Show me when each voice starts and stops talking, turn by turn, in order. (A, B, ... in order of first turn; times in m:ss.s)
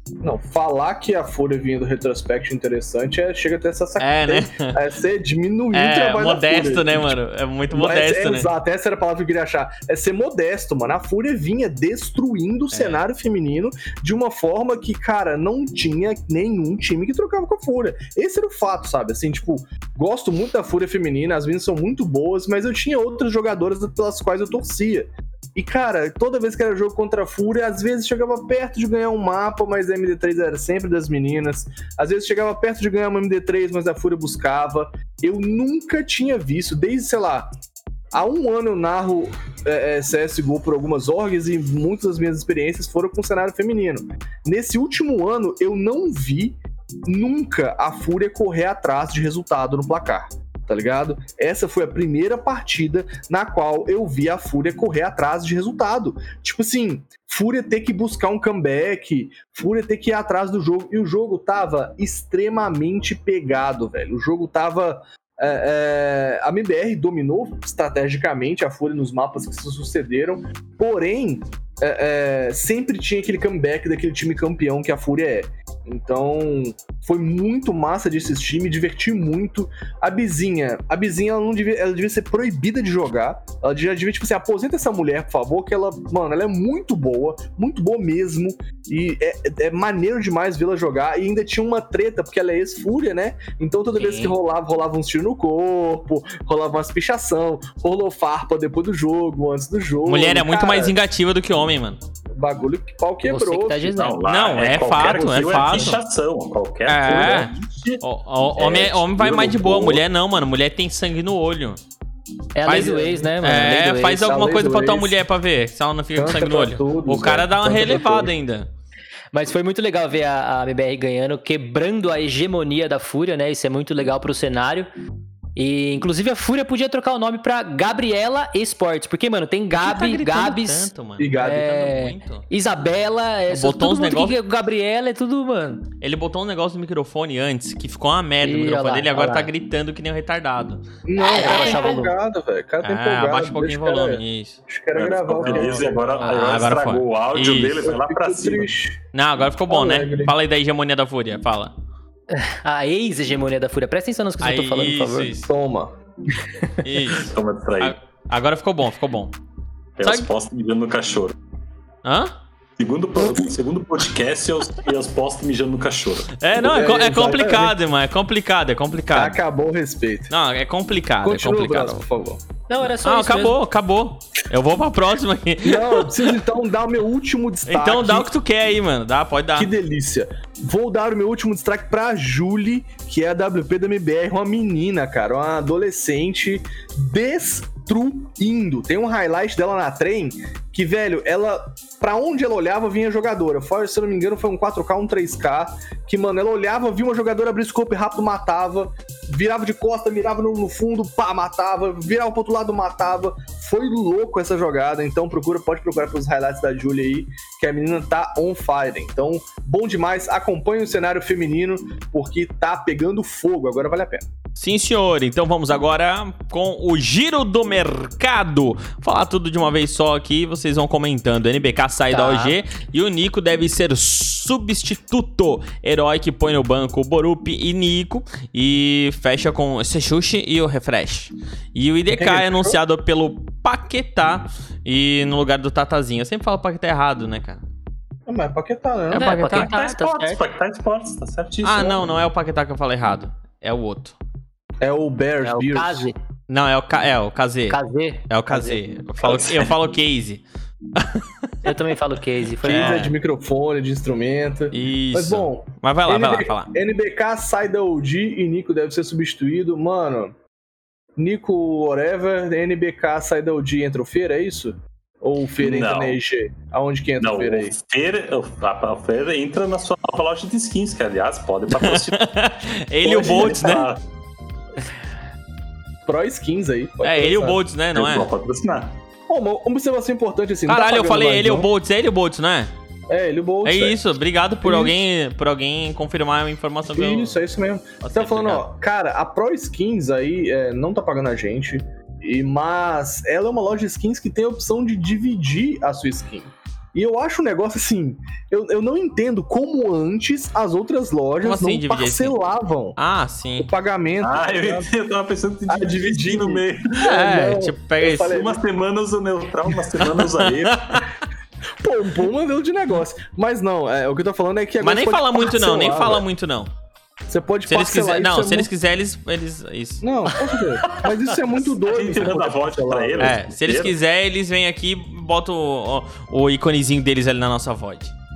0:00.2-0:07.1 A
0:04.0-0:04.8 B
0:05.7-0:08.5 B
0:07.7-0:37.5 A
0:12.7-0:13.0 B
0:38.1-1:41.0 A
1:33.9-1:34.4 C
1:40.0-1:42.0 B
1:42.4-1:43.9 A
1:43.2-1:44.2 C
1:43.9-1:48.0 D
1:44.2-1:46.0 B
1:45.0-1:45.9 A
1:46.9-1:51.8 B
1:48.6-1:50.0 A
1:48.6-1:48.9 D
1:52.5-1:54.2 C
1:52.6-1:58.7 B
1:52.7-1:53.3 A
1:54.1-1:55.2 A
1:56.1-1:58.3 A
1:59.3-2:04.9 C
2:05.6-2:15.9 C
2:09.8-2:12.5 B
2:11.2-2:11.6 A
2:13.5-2:14.4 B
2:16.0-2:20.8 B
2:18.4-2:19.5 C
2:21.0-2:26.3 A
2:21.2-2:22.1 C
2:22.8-2:24.6 B
2:24.9-2:28.7 D
2:26.2-2:27.8 B
2:27.8-2:29.0 A
2:29.1-2:31.7 B
2:29.7-2:30.3 A
2:32.3-2:35.3 C
2:34.4-2:35.5 B
2:35.4-2:36.0 A
2:36.8-2:37.3 B
2:37.1-2:38.0 D
2:37.8-2:39.4 B
2:40.0-2:41.3 D
2:40.0-2:40.3 B
2:42.0-2:42.3 B
2:42.8-2:46.4 D
2:46.4-2:49.4 B
2:46.5-2:47.7 A
2:49.1-2:50.3 A
2:50.3-2:52.0 B
2:51.2-2:52.4 A
2:52.7-2:53.6 C
2:53.0-2:56.2 B
2:55.6-2:58.3 A
2:57.7-2:59.7 B
2:59.6-3:34.2 A
3:34.6-3:57.6 B
3:42.1-3:42.6 C
3:52.1-3:52.8 A
3:58.2-3:59.6 A
3:59.1-4:00.4 C
3:59.1-3:59.6 B
3:59.4-4:02.0 D
4:01.6-4:04.2 B
4:04.8-4:06.1 A
4:05.4-4:06.2 C
4:06.5-4:07.8 B
4:07.7-4:08.8 C
4:08.3-4:10.4 B
4:09.2-4:09.7 A
4:11.0-4:11.2 B
4:11.6-4:13.0 C
4:12.6-4:13.1 B
4:12.6-4:20.3 A
4:14.7-4:16.7 B
4:21.2-4:27.7 A
4:25.6-4:26.2 D
4:27.2-4:32.2 D
4:31.7-4:33.9 B
4:33.0-4:33.7 A
4:33.2-4:34.0 D
4:36.0-4:37.6 A
4:37.0-4:38.3 B
4:37.9-4:39.0 D
4:39.3-4:41.7 A
4:40.7-4:42.7 B
4:43.1-4:44.0 A
4:43.6-4:47.4 B
4:44.6-4:44.9 A
4:47.0-5:03.0 A
4:48.0-4:48.6 B
5:01.4-5:02.4 B
5:03.0-5:03.7 B
5:03.6-5:04.9 A
5:04.2-5:07.0 D
5:05.7-5:08.6 A
5:07.0-5:08.4 B
5:08.2-5:11.1 D
5:10.0-5:11.1 B
5:11.8-5:16.2 A
5:14.8-5:16.7 B
5:17.3-5:18.7 A
5:17.6-5:20.9 B
5:20.0-5:23.4 A
5:21.8-5:24.0 D
5:23.2-5:28.1 B